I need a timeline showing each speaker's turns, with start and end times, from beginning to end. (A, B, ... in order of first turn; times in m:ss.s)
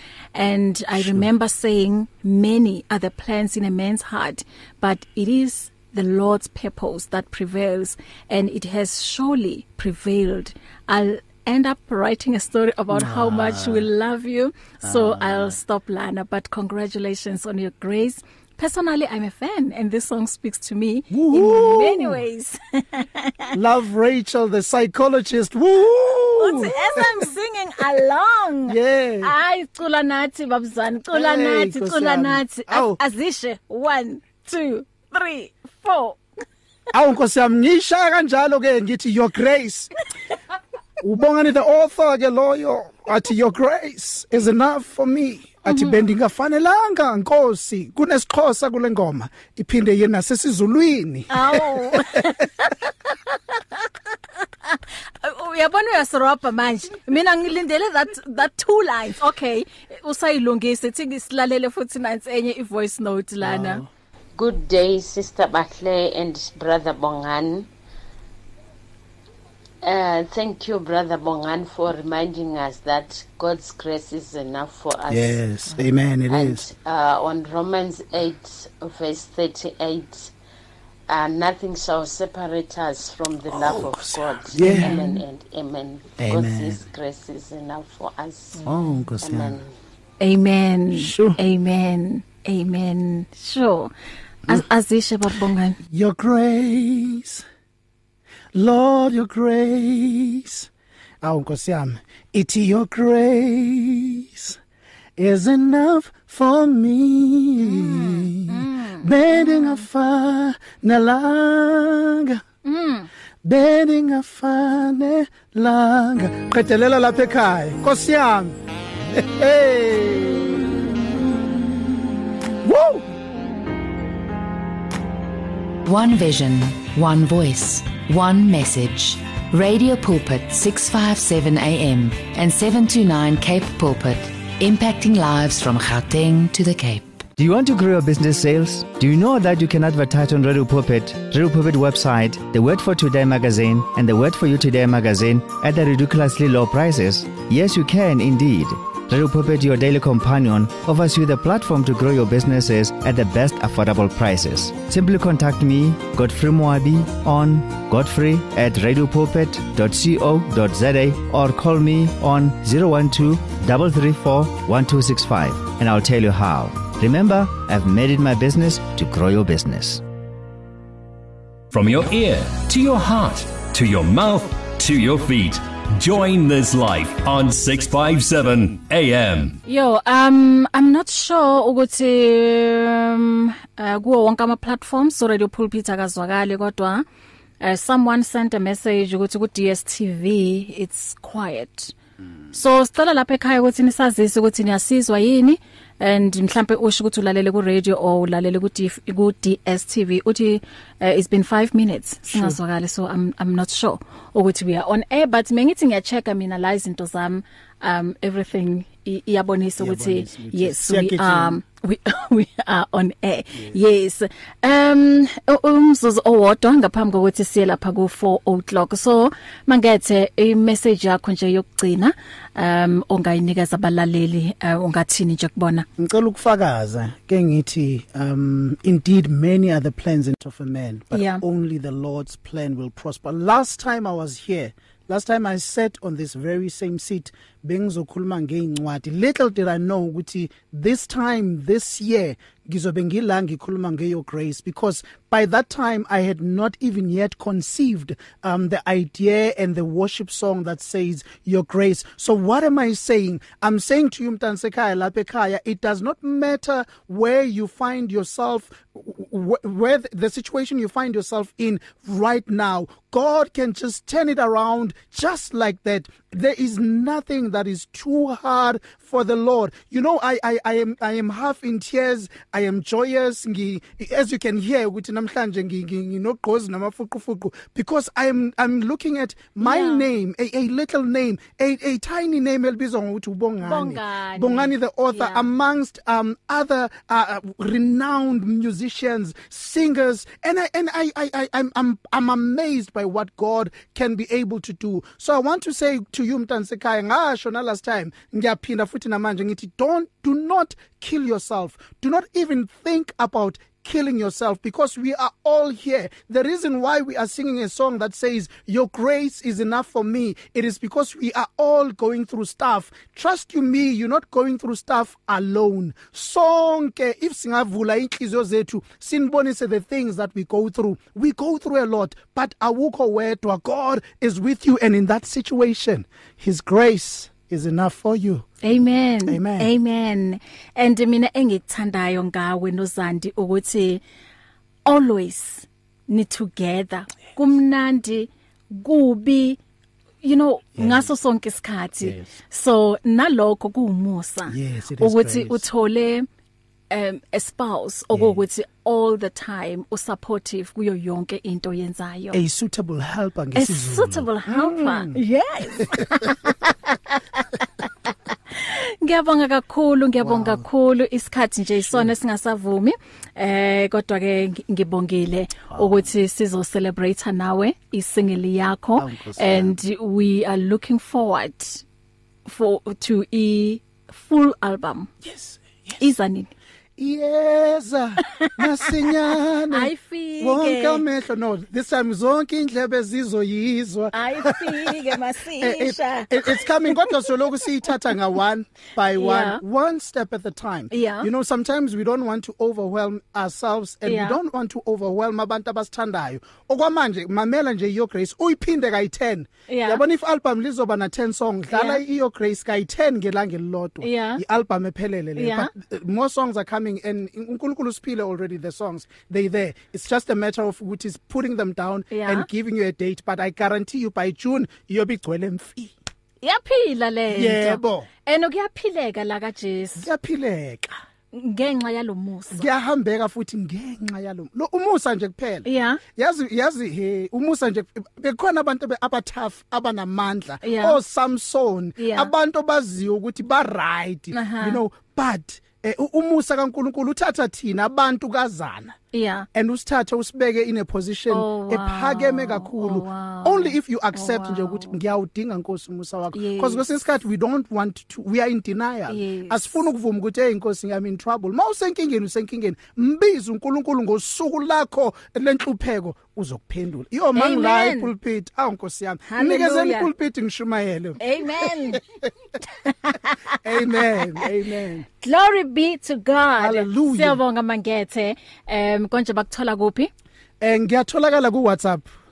0:00.3-0:23.5 A
0:00.9-0:01.3 B
0:12.9-0:13.9 B
0:14.8-0:15.6 B
0:21.1-0:22.2 B
0:23.5-0:27.2 B
0:26.4-0:36.2 A
0:28.6-0:29.3 B
0:31.1-0:33.0 B
0:36.9-0:39.9 B
0:41.0-0:52.3 B
0:45.6-0:46.1 A
0:51.3-0:53.9 A
0:54.6-1:03.8 A
1:03.4-1:03.9 B
1:04.4-1:07.7 C
1:09.8-1:15.4 C
1:15.1-1:16.7 B
1:16.3-1:20.3 C
1:21.1-1:28.6 C
1:23.5-1:25.0 B
1:24.6-1:25.2 A
1:26.2-1:26.9 B
1:28.6-1:29.6 B
1:29.2-1:29.7 C
1:30.2-1:33.9 A
1:30.9-1:31.4 B
1:34.4-1:35.8 A
1:35.9-1:37.4 B
1:38.5-1:40.7 B
1:41.2-1:44.6 B
1:45.2-1:52.4 B
1:47.6-1:49.8 A
1:52.6-1:53.1 A
1:53.4-2:01.2 B
2:02.6-2:03.1 B
2:05.8-2:17.2 D
2:17.4-2:50.0 E
2:51.7-2:59.6 F
2:59.6-3:07.0 A
3:07.6-3:11.9 A
3:12.5-3:45.8 A
3:22.3-3:22.6 B
3:29.8-3:31.6 B
3:46.0-5:28.4 B
3:51.1-3:51.4 A
4:39.6-4:40.1 A
4:43.6-4:45.4 A
5:28.6-5:34.0 A
5:29.2-5:29.7 B
5:34.8-5:39.6 A
5:40.2-5:46.2 A
5:40.8-5:41.1 B
5:42.0-5:42.3 B
5:44.4-5:45.6 B
5:46.9-5:52.4 A
5:48.1-5:48.4 B
5:52.3-5:55.2 B
5:53.5-5:57.5 A
5:55.8-5:56.2 B
5:58.1-6:11.8 A
6:00.2-6:00.6 B
6:01.8-6:02.1 B
6:05.7-6:06.0 B
6:09.0-6:09.8 B
6:12.4-6:15.1 A
6:15.2-6:16.0 B
6:16.0-6:16.5 A
6:17.0-6:55.9 B
6:19.7-6:21.0 A
6:24.1-6:27.3 A
6:29.1-6:29.6 A
6:30.9-6:31.3 A
6:34.0-6:34.4 A
6:39.7-6:40.0 A
6:41.7-6:42.0 A
6:44.0-6:44.4 A
6:45.4-6:45.7 A
6:52.1-6:52.5 A
6:56.4-7:00.1 A
6:57.3-6:58.1 B
7:00.0-7:00.9 B
7:01.3-7:02.7 A
7:02.5-7:19.0 B
7:05.6-7:06.0 A
7:10.6-7:11.0 A
7:12.0-7:12.3 A
7:14.3-7:14.8 A
7:19.1-7:19.5 A
7:19.5-7:42.2 B
7:21.3-7:25.0 A
7:26.3-7:26.8 A
7:29.1-7:29.8 A
7:37.4-7:38.1 A
7:39.3-7:40.1 A
7:41.2-7:42.0 A
7:42.8-7:44.5 A
7:43.6-7:45.0 B
7:45.2-7:50.1 A
7:46.6-7:47.4 B
7:50.6-7:52.0 B